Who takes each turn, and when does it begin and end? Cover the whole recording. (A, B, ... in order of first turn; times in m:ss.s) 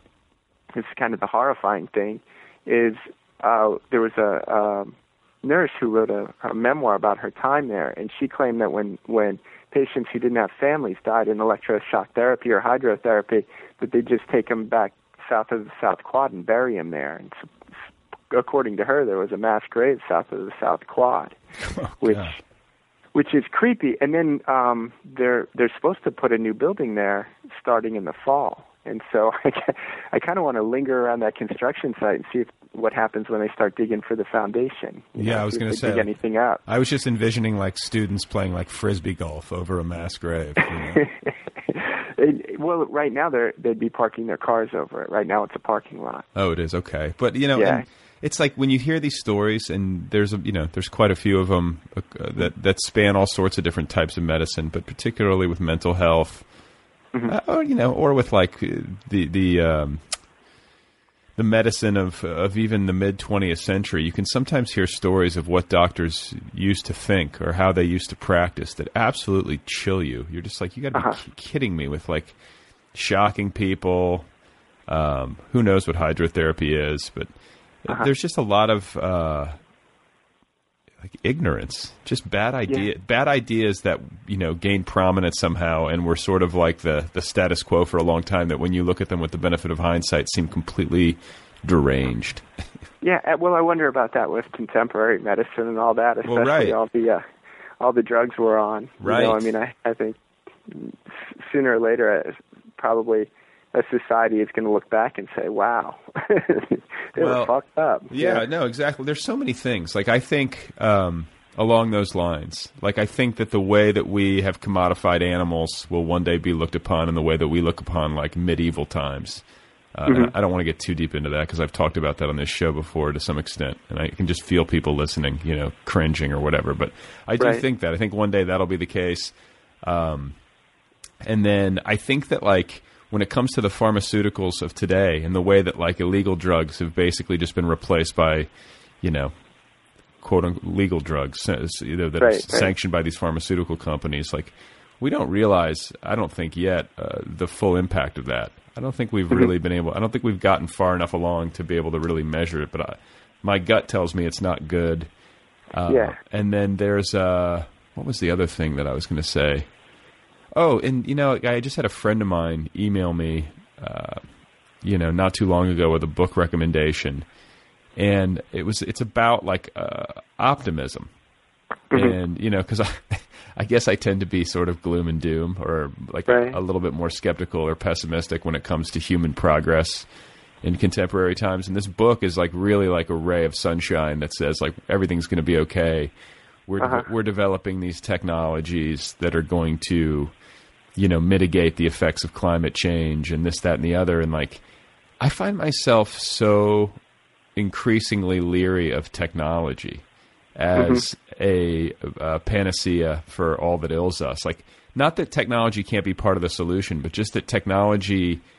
0:00.7-0:17.4 A
0:18.3-0:21.4 A
0:21.6-0:22.4 B
0:22.0-0:22.4 A
0:23.1-0:36.6 A
0:35.1-0:36.1 B
0:36.6-0:41.0 B
0:41.7-0:46.2 A
0:46.3-0:56.4 B
0:47.5-0:47.8 A
0:57.3-1:00.1 B
1:01.4-1:12.4 B
1:12.9-1:14.3 B
1:14.9-1:19.6 B
1:21.0-1:32.5 B
1:33.0-1:37.2 A
1:36.2-1:36.8 B
1:37.8-1:40.2 A
1:39.0-1:39.5 B
1:40.7-1:48.4 A
1:47.1-1:47.5 B
1:48.1-2:10.4 B
2:00.0-2:00.3 A
2:11.2-2:19.3 B
2:20.2-2:35.1 B
2:22.2-2:22.7 A
2:35.7-2:39.7 B
2:35.9-2:36.2 A
2:40.5-2:44.2 B
2:44.8-2:47.2 B
2:48.0-2:51.1 B
2:51.9-3:00.1 B
2:56.3-2:56.6 A
3:00.6-3:06.1 B
3:06.7-3:10.3 B
3:06.8-3:07.0 A
3:10.9-3:14.6 B
3:15.2-3:17.0 B
3:17.5-3:20.0 B
3:20.5-3:28.4 B
3:20.8-3:21.0 A